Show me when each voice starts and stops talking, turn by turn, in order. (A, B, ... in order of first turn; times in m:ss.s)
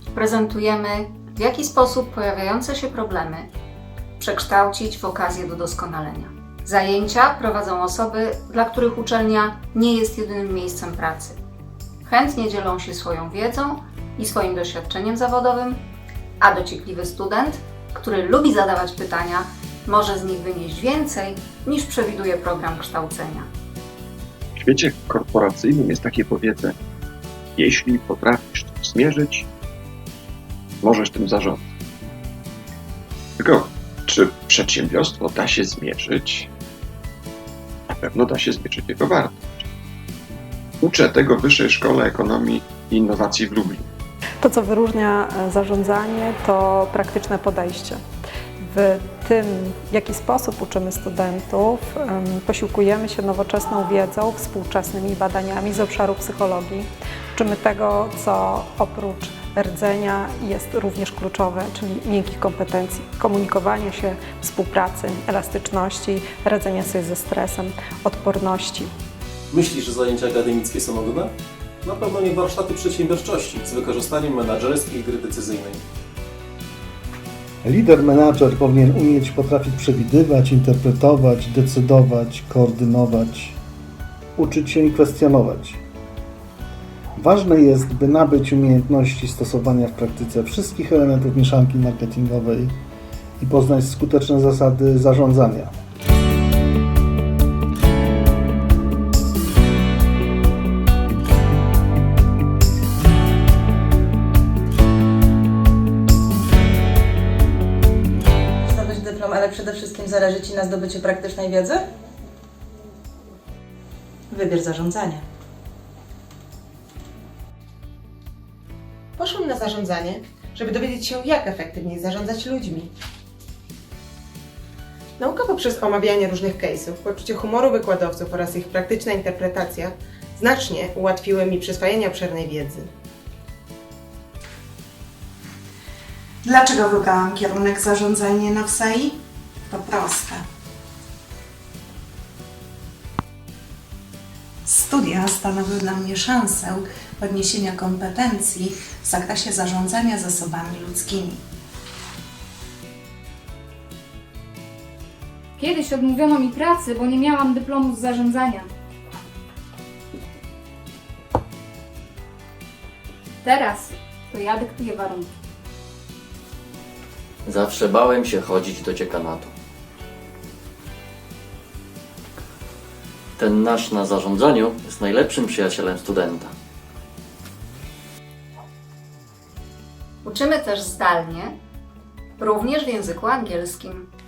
0:00.1-0:03.5 A
0:04.2-0:11.4 A
0:12.0-0:15.8 A
0:16.4-0:23.5 A
0:24.6-0:26.7 B
0:27.6-0:29.4 B
0:30.8-0:31.6 B
0:33.4-0:36.5 B
0:38.0-0:39.4 B
0:40.8-0:43.8 B
0:44.4-0:48.0 C
0:48.6-1:08.9 C
1:09.5-1:15.8 D
1:17.6-1:23.6 E
1:24.4-1:25.8 E
1:27.2-1:32.8 E
1:33.4-1:35.7 E
1:48.6-1:51.8 F
1:54.3-1:55.2 F
1:59.2-2:02.9 G
2:05.2-2:12.9 G
2:16.4-2:20.4 H
2:24.6-2:31.4 H
2:35.6-2:38.6 I
2:43.4-2:45.3 I
2:47.4-2:49.5 J
2:53.4-2:56.5 J
3:00.2-3:01.6 A
3:02.4-3:04.1 A